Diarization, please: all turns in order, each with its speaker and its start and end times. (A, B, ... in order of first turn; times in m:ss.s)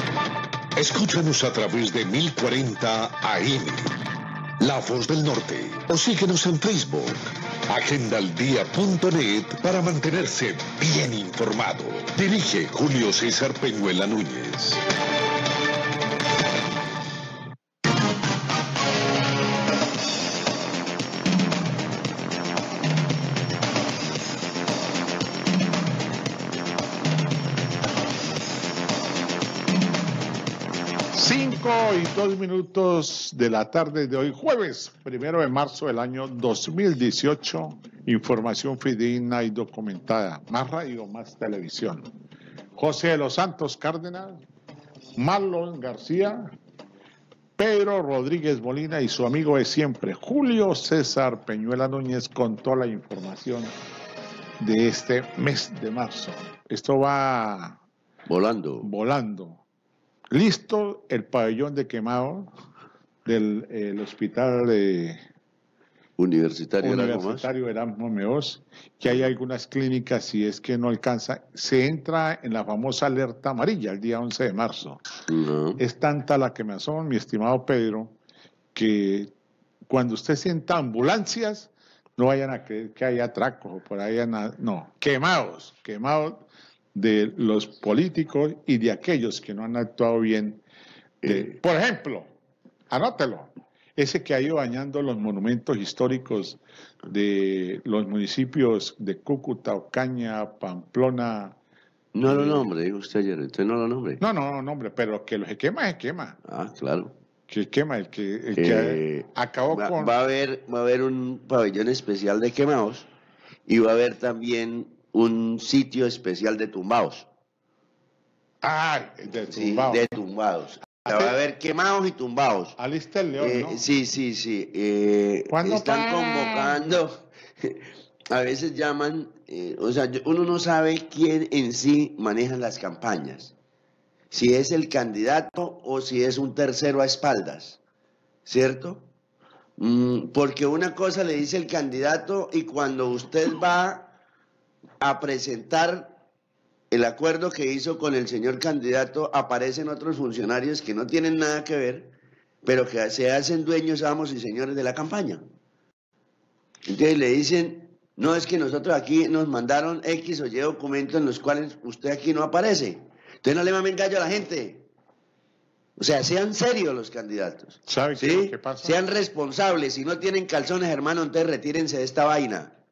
0:00.8-0:04.0 A
0:04.6-0:14.8 A
0:31.1-0:42.1 B
0:42.8-0:44.4 B
0:45.2-0:46.5 B
0:47.6-0:53.7 B
0:54.6-0:57.8 B
0:58.3-0:58.9 C
0:58.8-0:59.6 B
1:00.3-1:02.5 B
1:03.2-1:05.2 B
1:06.2-1:07.5 C
1:06.8-1:15.0 B
1:15.3-1:15.8 C
1:15.8-1:18.2 B
1:18.7-1:19.3 B
1:19.9-1:30.6 B
1:31.2-1:31.6 C
1:31.2-1:32.3 B
1:32.9-1:41.6 B
1:42.1-1:44.2 C
1:42.3-1:42.7 B
1:44.2-1:46.4 B
1:46.4-1:47.1 C
1:47.5-1:50.1 B
1:48.6-1:53.1 C
1:53.7-1:57.3 C
1:58.6-2:00.1 B
1:59.5-2:02.8 C
2:01.0-2:01.4 B
2:02.8-2:03.8 B
2:03.4-2:13.5 C
2:05.5-2:06.8 B
2:14.3-2:17.8 C
2:18.5-2:19.1 C
2:19.8-2:24.1 C
2:25.0-2:26.2 C
2:26.9-2:32.1 C
2:32.6-2:35.4 C
2:36.8-2:44.9 C
2:46.0-2:52.7 C
2:47.9-2:49.0 B